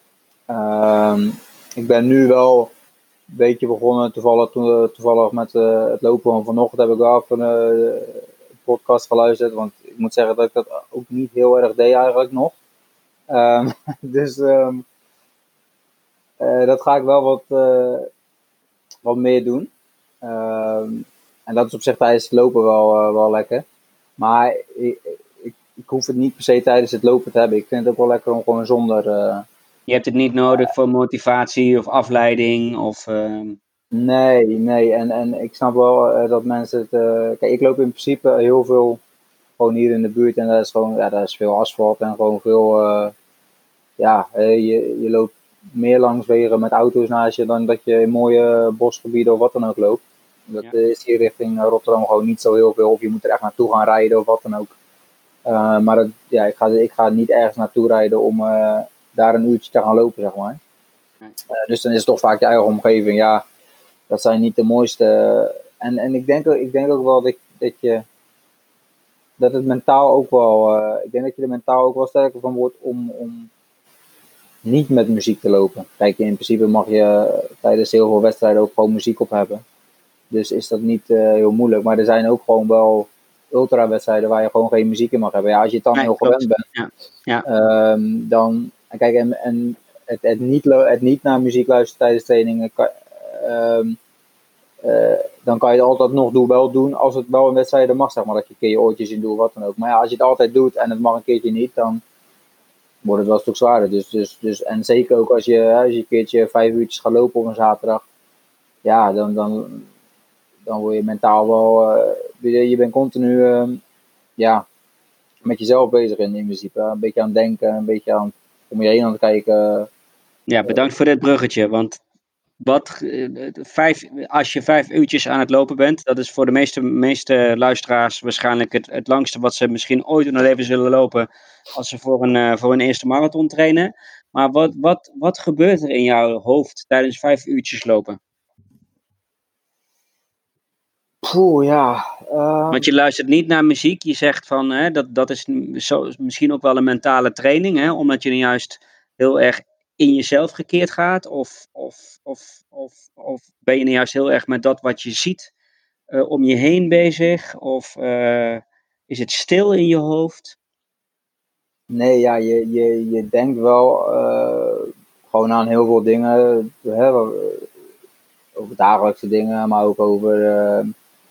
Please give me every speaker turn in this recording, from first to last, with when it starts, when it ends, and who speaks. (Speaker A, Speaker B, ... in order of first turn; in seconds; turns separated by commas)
Speaker A: 0.5-2.7, Speaker A: 3.3-12.6, Speaker A: 13.3-14.8, Speaker A: 16.4-18.1, Speaker A: 19.1-19.7, Speaker A: 20.2-23.6, Speaker A: 24.2-29.5, Speaker B: 29.9-33.6, Speaker A: 33.9-39.0, Speaker A: 39.6-43.1, Speaker A: 44.0-54.7, Speaker A: 55.5-60.6, Speaker A: 61.7-63.5, Speaker A: 64.1-68.0, Speaker A: 69.4-73.5, Speaker A: 74.6-79.6, Speaker A: 80.3-86.6, Speaker B: 86.0-87.5, Speaker A: 87.5-94.0, Speaker A: 94.8-102.0, Speaker A: 103.0-108.0, Speaker A: 108.8-109.9, Speaker A: 110.7-113.8, Speaker A: 114.4-114.7, Speaker A: 115.4-119.9, Speaker B: 120.5-122.0, Speaker B: 122.6-138.2, Speaker A: 141.2-142.9, Speaker B: 142.7-155.5, Speaker B: 156.1-160.6, Speaker A: 161.9-167.7, Speaker A: 168.6-170.9